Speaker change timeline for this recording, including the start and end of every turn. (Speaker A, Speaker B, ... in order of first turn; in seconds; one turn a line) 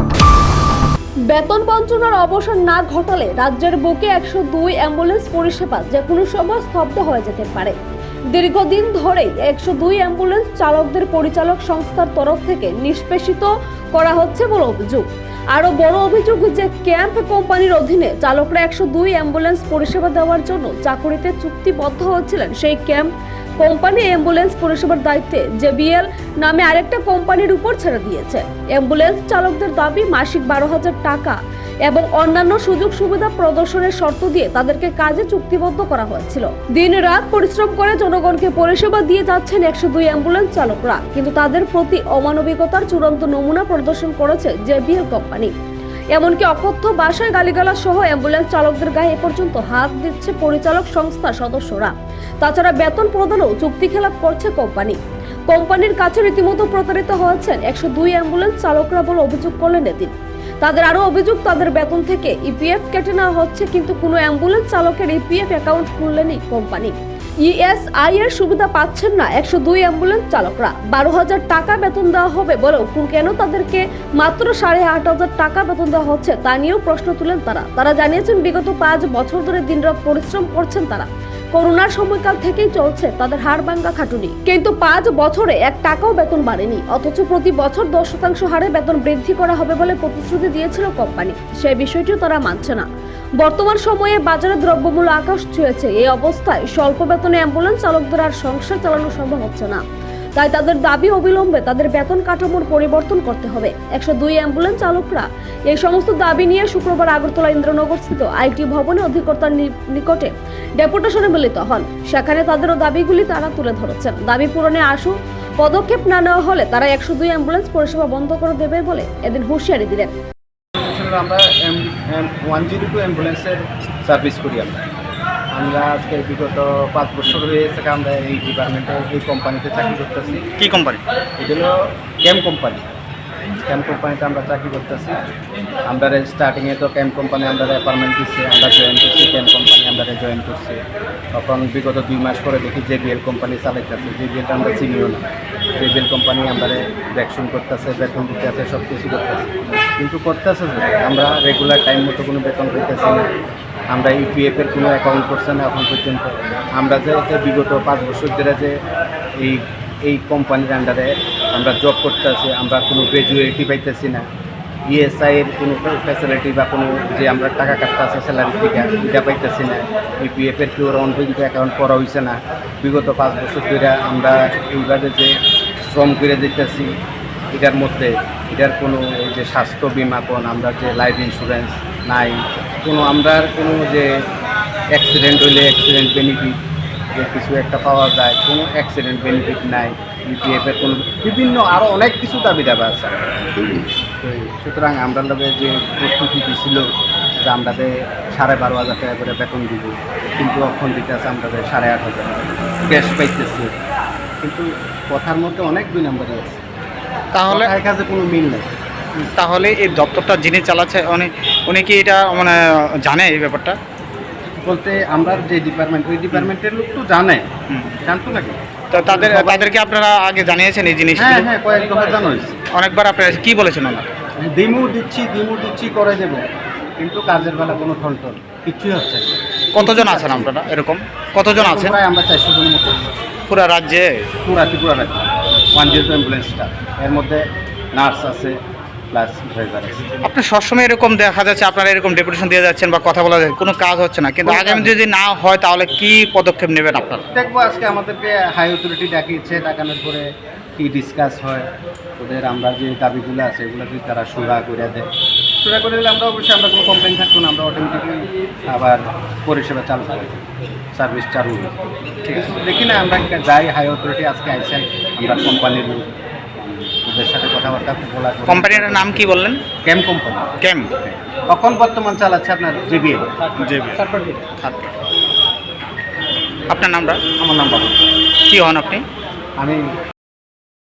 Speaker A: 1.3-7.8
Speaker A: 8.3-23.1
Speaker A: 23.6-45.5
Speaker A: 46.1-92.9
Speaker A: 93.4-99.8
Speaker A: 100.3-120.1
Speaker B: 120.8-124.8
Speaker B: 125.5-130.5
Speaker C: 130.6-131.0
Speaker B: 131.4-132.8
Speaker B: 133.6-135.2
Speaker B: 135.9-140.8
Speaker B: 141.3-145.2
Speaker B: 145.8-153.2
Speaker B: 153.9-158.8
Speaker B: 159.4-164.2
Speaker B: 164.9-176.9
Speaker B: 177.5-184.1
Speaker B: 184.9-186.6
Speaker B: 187.1-196.8
Speaker B: 197.4-203.7
Speaker B: 204.4-206.6
Speaker C: 207.3-207.7
Speaker B: 207.5-208.7
Speaker C: 209.2-213.8
Speaker B: 214.6-217.5
Speaker C: 217.7-218.0
Speaker B: 218.0-218.6
Speaker C: 218.9-221.4
Speaker B: 219.1-219.7
Speaker B: 221.2-222.6
Speaker C: 222.7-224.1
Speaker B: 224.4-226.4
Speaker B: 227.0-230.6
Speaker C: 229.7-232.0
Speaker B: 231.5-233.0
Speaker C: 233.5-234.2
Speaker B: 234.4-238.6
Speaker B: 239.1-240.1
Speaker C: 240.2-247.2
Speaker B: 244.4-244.9
Speaker B: 247.3-250.2
Speaker B: 250.8-251.7
Speaker B: 252.2-255.1
Speaker B: 255.6-261.7
Speaker C: 262.2-262.5
Speaker B: 262.3-270.5
Speaker C: 268.5-269.6
Speaker C: 270.6-270.9
Speaker B: 271.0-273.3
Speaker C: 273.6-274.0
Speaker B: 273.9-274.4
Speaker C: 274.6-274.9
Speaker C: 276.7-277.4
Speaker B: 277.4-278.0
Speaker C: 278.4-279.0
Speaker B: 279.6-279.9